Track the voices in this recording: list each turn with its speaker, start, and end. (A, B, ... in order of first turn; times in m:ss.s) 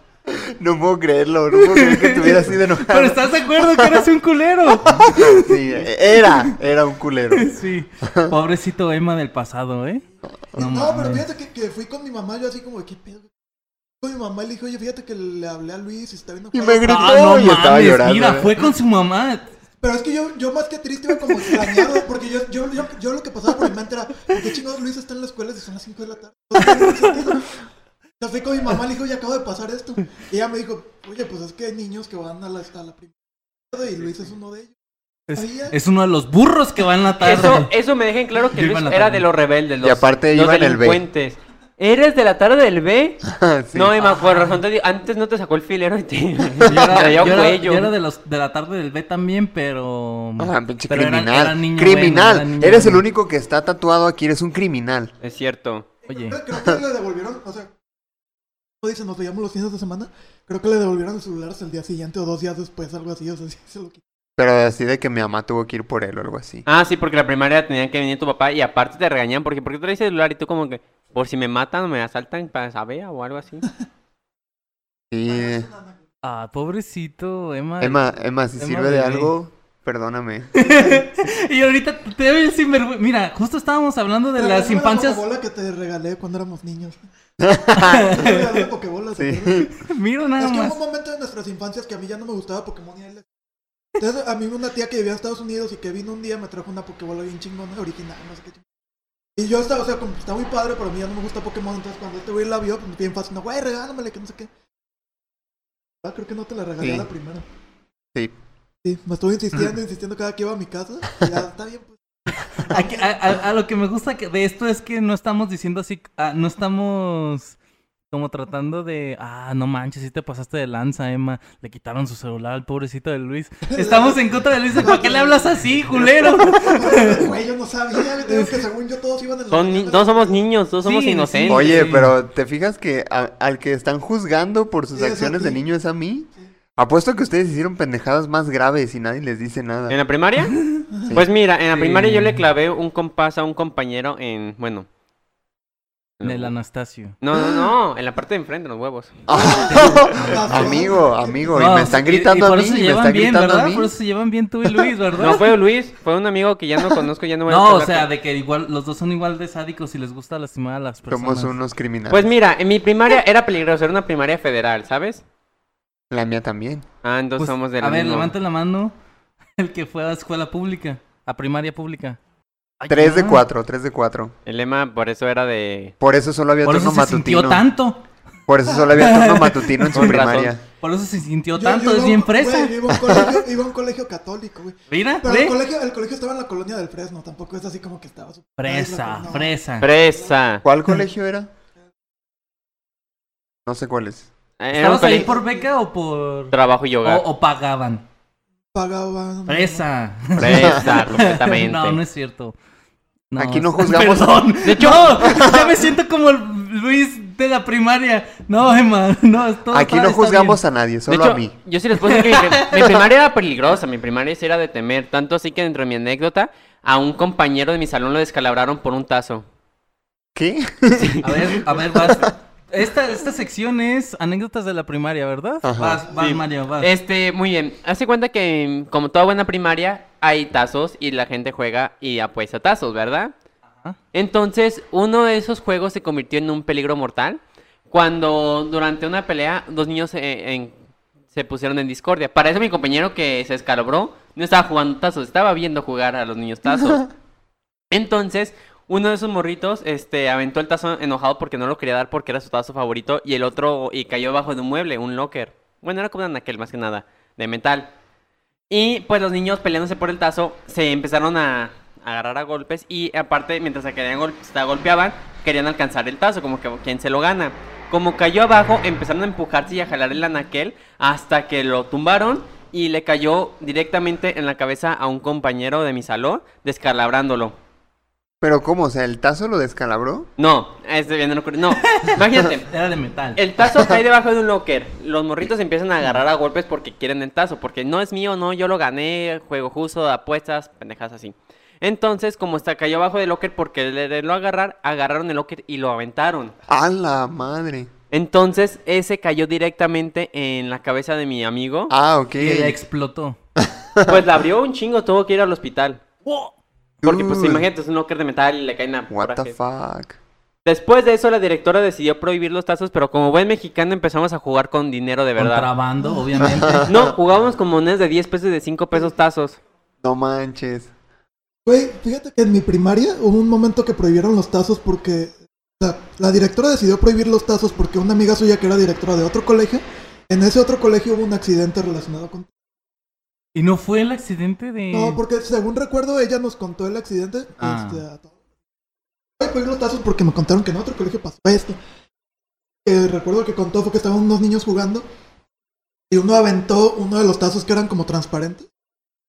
0:00.3-0:04.1 A
0:01.5-0:05.6 B
0:04.8-0:07.5 A
0:06.1-0:06.6 B
0:07.3-0:11.2 B
0:08.0-0:08.4 A
0:10.6-0:13.3 C
0:14.0-0:17.0 C
0:16.5-0:18.7 A
0:16.8-0:19.5 B
0:19.8-0:27.6 C
0:21.4-0:21.8 B
0:26.6-0:27.1 B
0:28.2-0:33.1 C
0:33.7-0:34.7 C
0:35.3-0:37.7 B
0:35.4-0:35.8 C
0:37.2-0:43.2 D
0:38.5-0:39.3 B
0:39.8-0:41.0 A
0:43.3-0:44.0 A
0:43.7-0:47.9 D
0:44.0-0:44.6 B
0:46.6-0:47.3 A
0:46.6-0:53.0 B
0:50.4-0:55.1 A
0:55.2-0:55.9 D
0:56.1-0:56.4 B
0:56.1-0:57.7 C
0:58.8-1:04.0 C
1:04.4-1:06.6 A
1:06.6-1:13.6 D
1:15.1-1:15.7 A
1:15.3-1:16.0 C
1:16.2-1:18.0 B
1:17.8-1:20.5 A
1:18.6-1:19.3 B
1:20.6-1:25.2 B
1:20.6-1:21.0 C
1:24.3-1:27.0 C
1:27.4-1:28.2 A
1:27.8-1:28.7 B
1:27.8-1:29.7 C
1:29.2-1:29.7 A
1:29.7-1:30.8 B
1:30.4-1:33.2 C
1:34.0-1:38.6 C
1:39.4-1:44.5 C
1:46.0-1:47.4 C
1:46.8-1:47.1 A
1:48.8-1:53.3 C
1:52.7-1:57.6 B
1:58.1-2:07.3 B
2:03.7-2:10.5 C
2:08.2-2:08.6 B
2:09.5-2:11.7 D
2:10.8-2:12.1 B
2:11.5-2:20.0 A
2:15.0-2:15.6 C
2:19.9-2:20.5 D
2:21.1-2:24.9 D
2:21.7-2:22.5 B
2:26.2-2:26.5 D
2:26.2-2:27.2 B
2:27.2-2:29.1 D
2:29.3-2:33.9 A
2:29.4-2:31.5 C
2:29.7-2:30.9 B
2:31.5-2:35.4 B
2:35.2-2:38.1 D
2:37.5-2:41.6 B
2:41.1-2:42.3 A
2:42.1-2:45.2 D
2:46.1-2:46.9 A
2:47.0-2:48.4 D
2:47.4-2:48.9 B
2:49.6-2:52.2 B
2:52.8-2:53.4 B
2:52.9-2:54.3 A
2:54.5-2:55.9 D
2:56.0-2:57.7 A
2:56.6-2:58.0 B
2:58.5-3:00.6 A
2:58.9-3:00.2 B
3:00.0-3:00.5 D
3:00.8-3:03.4 B
3:01.6-3:10.4 C
3:04.9-3:05.6 B
3:08.6-3:09.9 B
3:09.8-3:10.6 D
3:10.6-3:11.5 A
3:13.7-3:14.3 A
3:14.6-3:15.3 D
3:14.7-3:18.0 B
3:15.1-3:15.7 C
3:16.5-3:17.3 D
3:18.7-3:19.8 C
3:19.5-3:22.6 B
3:20.4-3:20.9 A
3:20.4-3:22.0 D
3:23.3-3:30.6 B
3:23.4-3:25.8 A
3:24.6-3:25.2 D
3:29.7-3:31.6 A
3:31.1-3:39.4 D
3:32.1-3:32.7 B
3:40.4-3:42.3 A
3:41.0-3:41.5 D
3:41.2-3:46.9 B
3:45.6-3:46.1 A
3:46.2-3:53.3 D
3:54.1-4:00.8 D
4:01.3-4:07.1 D
4:07.9-4:17.9 D
4:18.7-4:37.6 D
4:38.4-4:40.3 A
4:40.4-4:42.7 D
4:42.0-4:43.4 B
4:43.4-4:56.5 D
4:56.7-4:57.9 A
4:58.1-5:01.9 D
5:01.9-5:02.8 A
5:02.4-5:03.4 B
5:03.6-5:04.2 A
5:04.1-5:06.0 D
5:06.2-5:06.5 B
5:07.0-5:07.7 A
5:07.0-5:09.6 D
5:09.1-5:10.2 A
5:10.6-5:15.7 D
5:15.4-5:16.9 B
5:16.4-5:17.1 A
5:16.9-5:19.6 D
5:20.0-5:20.9 A
5:21.6-5:32.5 C
5:33.5-5:35.2 B
5:34.9-5:38.3 C
5:37.6-5:38.0 B
5:39.4-5:41.8 C
5:42.8-5:45.0 C
5:46.1-5:48.7 C